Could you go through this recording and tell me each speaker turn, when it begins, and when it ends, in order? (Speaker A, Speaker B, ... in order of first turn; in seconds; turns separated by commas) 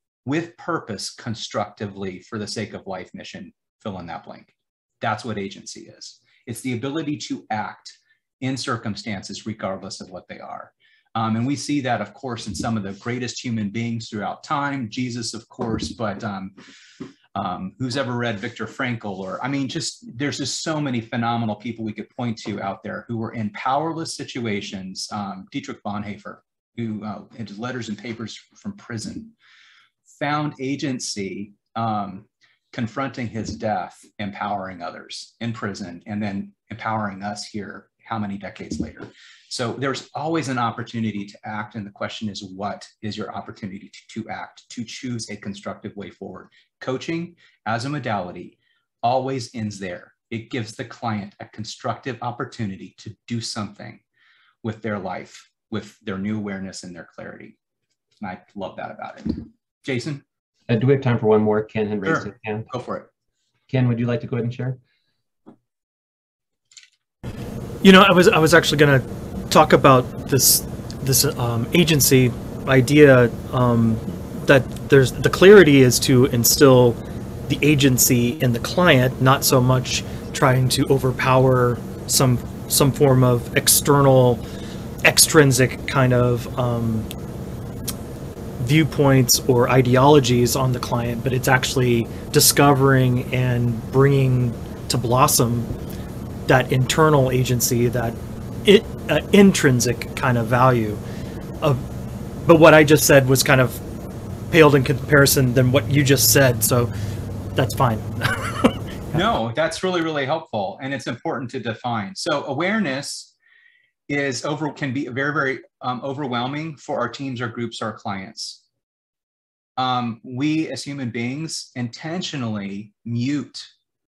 Speaker A: 0.2-16.5, Speaker A: 17.3-29.3, Speaker A: 30.1-54.0, Speaker A: 54.6-57.5, Speaker A: 58.2-60.2, Speaker B: 60.7-62.7, Speaker A: 62.0-63.1, Speaker B: 63.7-64.8, Speaker C: 67.8-84.4, Speaker C: 85.0-87.1, Speaker C: 88.6-95.7, Speaker C: 96.5-101.0, Speaker C: 101.6-101.9, Speaker C: 102.4-103.8, Speaker C: 104.5-106.9, Speaker C: 107.5-109.2, Speaker A: 109.1-113.3, Speaker A: 114.1-118.6, Speaker A: 119.8-123.7